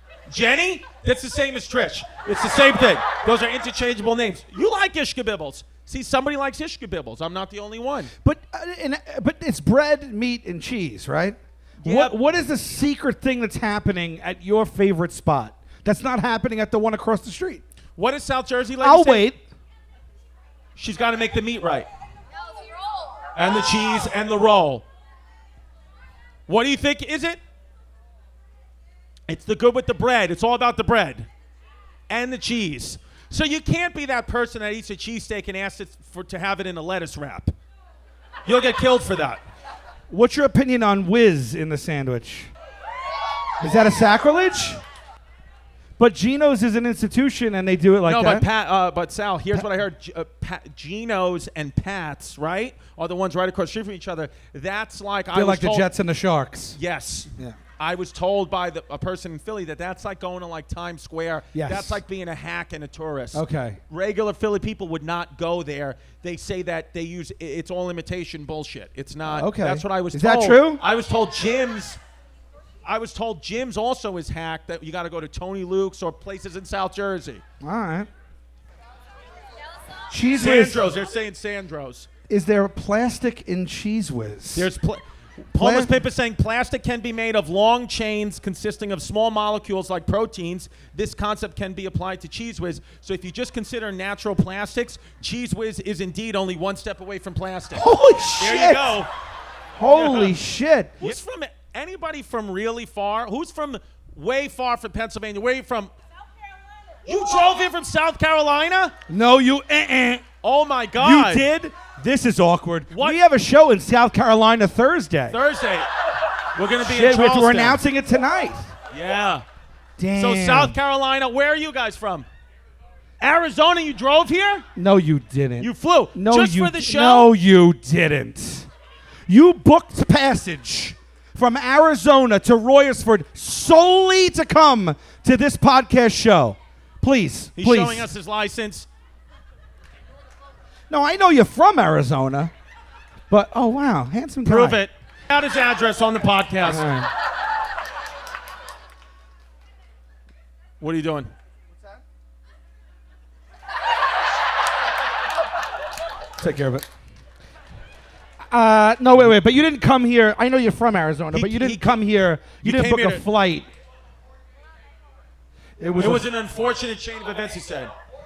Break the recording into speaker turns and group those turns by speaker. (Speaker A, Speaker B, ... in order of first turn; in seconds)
Speaker A: 0.3-8.1, 11.8-12.2, 18.0-19.3, 20.8-21.9, 23.4-24.9, 26.5-27.4, 29.3-31.3, 32.1-37.5, 38.5-39.4, 48.1-55.9, 56.8-72.0, 72.8-77.4, 80.4-82.1, 84.5-99.1, 99.9-100.3, 101.0-105.9, 107.1-109.0, 110.4-111.5, 112.9-113.2, 115.3-115.9, 116.5-117.8, 118.9-119.4, 120.2-122.3, 123.2-124.7, 125.6-127.3, 137.6-138.9, 144.4-146.9, 150.8-151.3, 161.3-161.9, 162.6-163.2, 166.0-167.9
Speaker B: 8.2-17.6, 18.8-19.4, 40.1-42.5, 43.6-44.8, 46.0-48.5, 55.3-56.8, 61.5-62.0, 63.3-63.8, 69.3-70.8, 77.6-78.1, 80.1-80.8, 82.3-84.7, 85.6-86.0, 97.8-99.0, 99.8-101.2, 109.1-110.2, 111.0-115.4, 116.8-118.7, 120.0-120.8, 124.8-128.7, 129.3-138.1, 140.9-142.5, 143.3-144.8, 146.7-147.1, 156.4-156.9, 158.5-163.7, 165.8-166.3